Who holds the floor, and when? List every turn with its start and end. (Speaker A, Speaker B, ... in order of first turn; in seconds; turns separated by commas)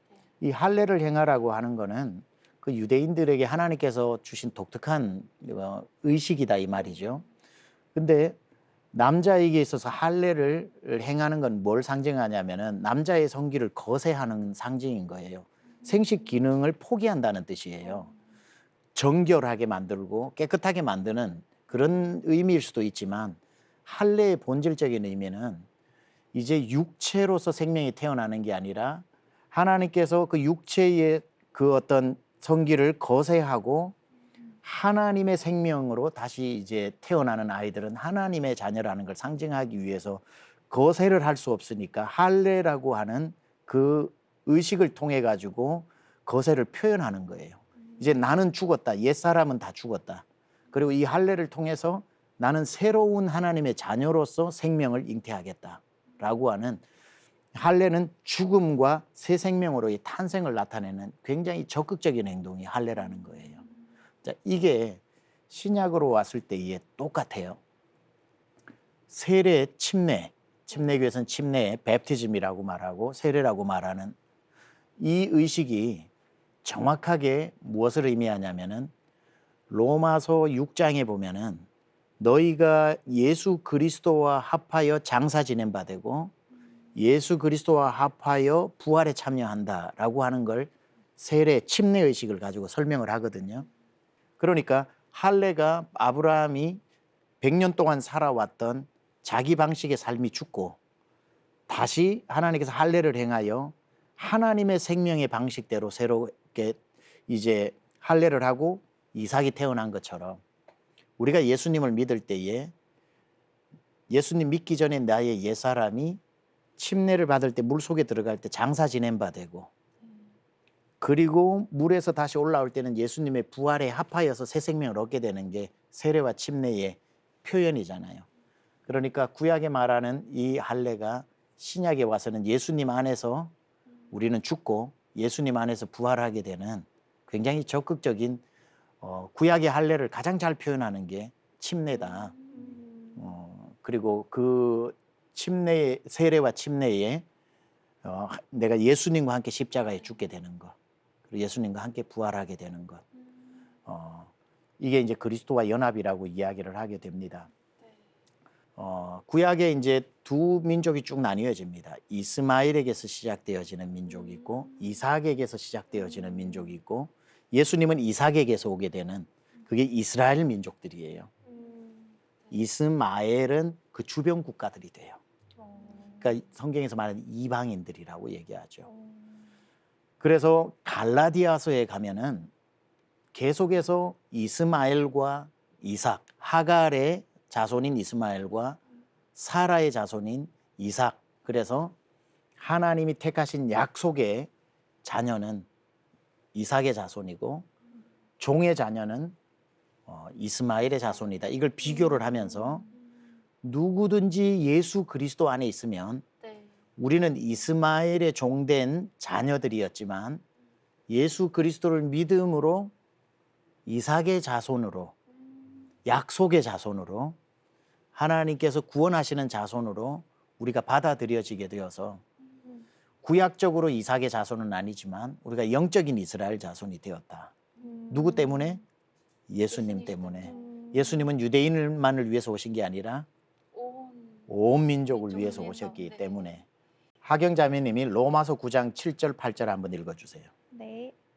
Speaker A: 0.4-7.2, Speaker A: 7.9-8.3, Speaker A: 8.9-18.1, Speaker A: 18.9-25.6, Speaker A: 26.3-34.0, Speaker A: 34.6-56.8, Speaker A: 57.5-63.6, Speaker A: 64.2-67.6, Speaker A: 69.1-74.1, Speaker A: 75.0-76.1, Speaker A: 76.6-78.9, Speaker A: 79.7-81.7, Speaker A: 82.2-86.3, Speaker A: 87.0-93.7, Speaker A: 94.4-96.8, Speaker A: 97.4-100.8, Speaker A: 101.7-110.4, Speaker A: 111.2-112.7, Speaker A: 114.1-116.2, Speaker A: 116.8-119.7, Speaker A: 121.0-128.2, Speaker A: 128.9-133.5, Speaker A: 134.1-138.4, Speaker A: 139.0-142.3, Speaker B: 142.5-143.2, Speaker A: 143.2-147.2, Speaker A: 148.0-150.7, Speaker A: 151.3-153.0, Speaker A: 153.8-157.5, Speaker A: 158.8-171.3, Speaker B: 171.5-172.0, Speaker A: 172.5-175.2, Speaker B: 175.6-176.3, Speaker A: 176.2-178.9, Speaker B: 178.9-179.3, Speaker A: 180.2-182.5, Speaker A: 183.3-188.8, Speaker A: 189.3-191.9, Speaker A: 192.6-194.5, Speaker A: 195.0-195.7, Speaker A: 196.5-197.7, Speaker A: 198.4-199.3, Speaker A: 200.1-202.8, Speaker A: 203.6-206.2, Speaker C: 206.4-206.7, Speaker A: 207.0-210.4, Speaker A: 211.1-212.9, Speaker A: 213.8-215.1, Speaker A: 216.0-217.4, Speaker A: 218.1-222.2, Speaker A: 223.2-227.5, Speaker B: 227.8-228.8, Speaker A: 228.1-228.8, Speaker A: 229.5-233.3, Speaker C: 229.7-230.6, Speaker B: 230.5-231.2, Speaker C: 233.7-234.5, Speaker A: 234.5-236.6, Speaker C: 235.2-236.3, Speaker A: 237.2-240.5, Speaker B: 240.7-241.1